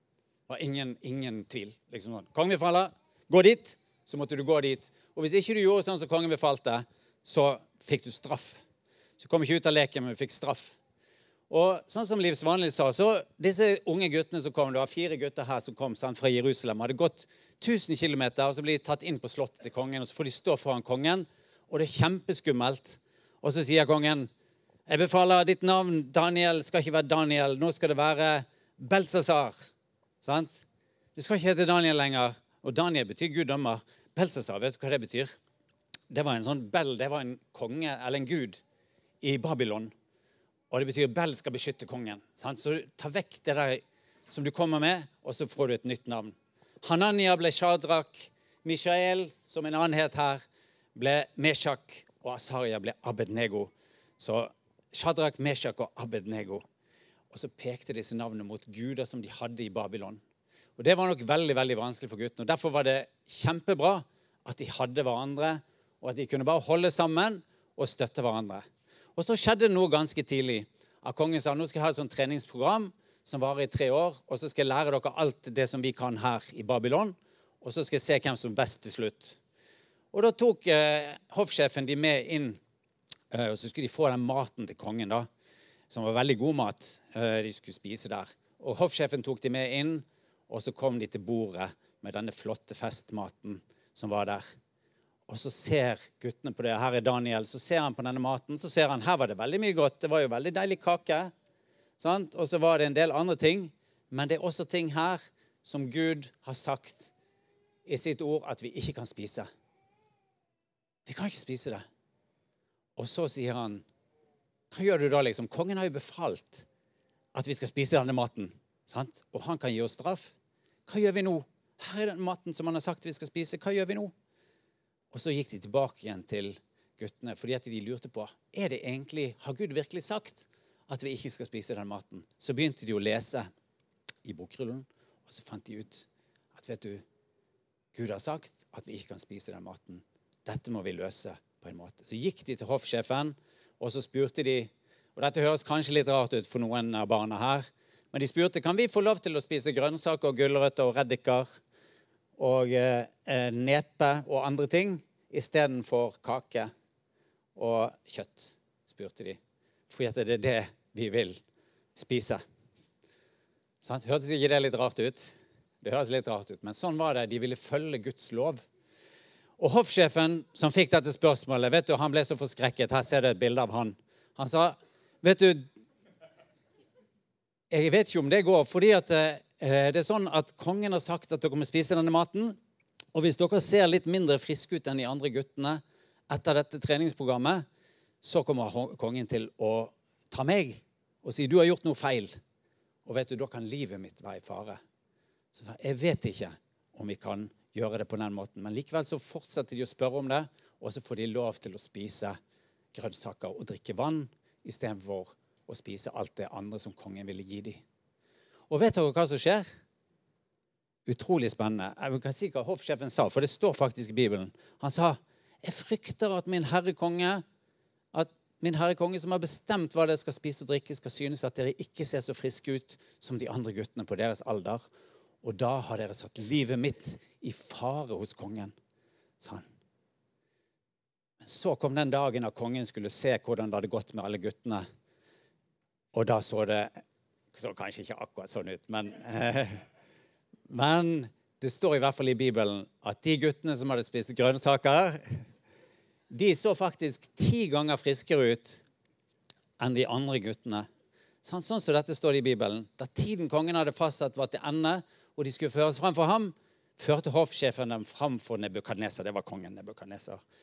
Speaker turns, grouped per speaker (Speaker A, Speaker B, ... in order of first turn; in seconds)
Speaker A: 0.5-8.6, 9.2-10.8, 11.5-24.3, 24.9-29.7, 30.2-30.6, 31.1-35.4, 36.1-38.6, 39.2-39.9, 40.7-50.4, 51.0-56.6, 57.3-60.2, 60.8-68.6, 69.2-79.4, 80.1-82.6, 83.3-85.3, 85.9-94.5, 95.3-101.3, 102.0-107.1, 107.8-109.5, 111.0-111.8, 113.0-113.8, 114.7-116.7, 117.3-120.3, 120.9-124.1, 125.1-133.5, 134.2-137.0, 137.9-151.5, 152.4-156.7, 157.6-161.4, 161.9-162.4, 163.8-168.6, 169.6-175.7, 177.7-182.6, 183.1-187.6, 188.2-192.3, 193.0-194.8, 195.5-202.4, 202.9-207.8, 208.7-209.6, 211.1-217.4, 218.1-224.8, 225.4-228.7, 229.4-229.6, 231.4-234.8, 236.1-236.9, 237.5-239.8, 240.7-245.2, 246.3-248.8, 249.8-250.9, 251.4-260.4